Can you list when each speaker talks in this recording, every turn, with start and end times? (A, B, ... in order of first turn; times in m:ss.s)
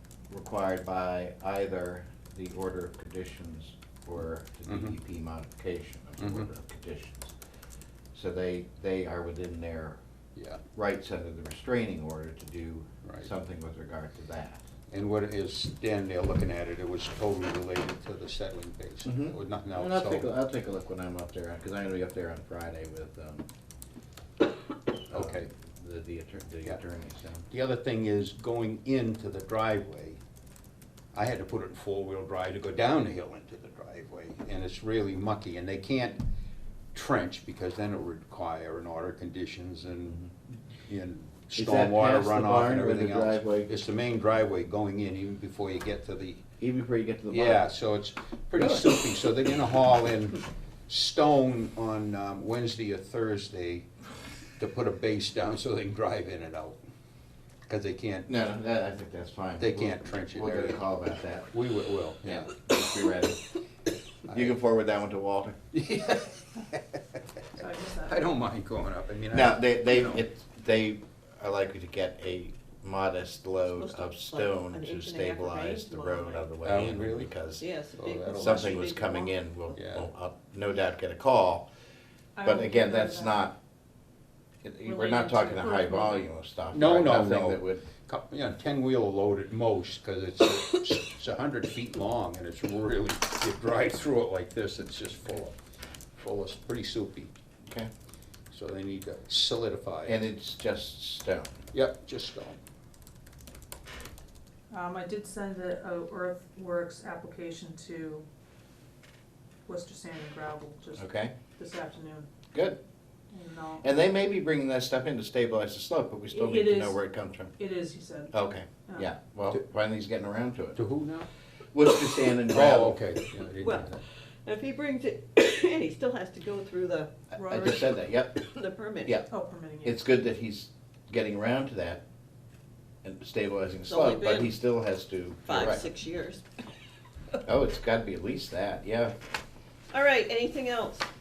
0:00.3-0:07.3 A
0:04.7-0:05.0 B
0:06.2-0:06.5 B
0:08.1-0:10.0 A
0:10.4-0:10.6 B
0:10.8-0:14.6 A
0:14.9-0:20.3 B
0:19.0-0:23.4 A
0:25.1-0:27.4 A
0:25.1-0:25.5 B
0:27.5-0:30.2 B
0:31.1-0:36.2 B
0:36.9-0:40.3 B
0:40.8-0:46.4 B
0:41.5-0:43.7 A
0:46.6-0:47.6 A
0:47.3-0:53.8 B
0:54.6-0:56.8 B
0:57.7-0:58.3 B
0:58.3-1:01.5 A
0:59.6-1:00.8 B
1:01.5-1:02.5 B
1:02.2-1:03.5 A
1:04.3-1:05.6 A
1:05.7-1:07.0 B
1:07.5-1:08.2 C
1:08.0-1:10.2 B
1:09.3-1:17.6 A
1:13.8-1:16.5 D
1:16.6-1:17.3 B
1:17.6-1:19.3 D
1:17.9-1:18.8 B
1:18.4-1:21.7 A
1:19.7-1:20.1 B
1:22.4-1:23.4 C
1:22.4-1:23.6 A
1:24.6-1:27.8 A
1:24.8-1:26.2 C
1:26.7-1:35.5 B
1:36.2-1:37.3 B
1:37.6-1:37.9 A
1:38.5-1:40.2 B
1:40.0-1:41.6 A
1:41.7-1:42.6 B
1:44.7-1:48.3 C
1:49.6-1:52.3 C
1:51.0-1:51.3 A
1:52.5-1:52.8 A
1:53.3-1:53.8 C
1:53.8-1:57.5 A
1:56.3-1:57.0 C
1:57.6-1:58.3 C
1:58.3-2:00.8 A
2:00.8-2:01.3 B
2:01.7-2:03.0 A
2:02.5-2:04.0 B
2:03.6-2:03.9 D
2:04.4-2:07.1 D
2:07.3-2:08.4 A
2:07.3-2:07.9 C
2:08.4-2:09.2 D
2:09.3-2:10.0 C
2:09.8-2:12.0 A
2:13.0-2:15.8 A
2:13.9-2:14.5 D
2:15.4-2:16.4 D
2:17.4-2:19.1 A
2:19.9-2:21.1 D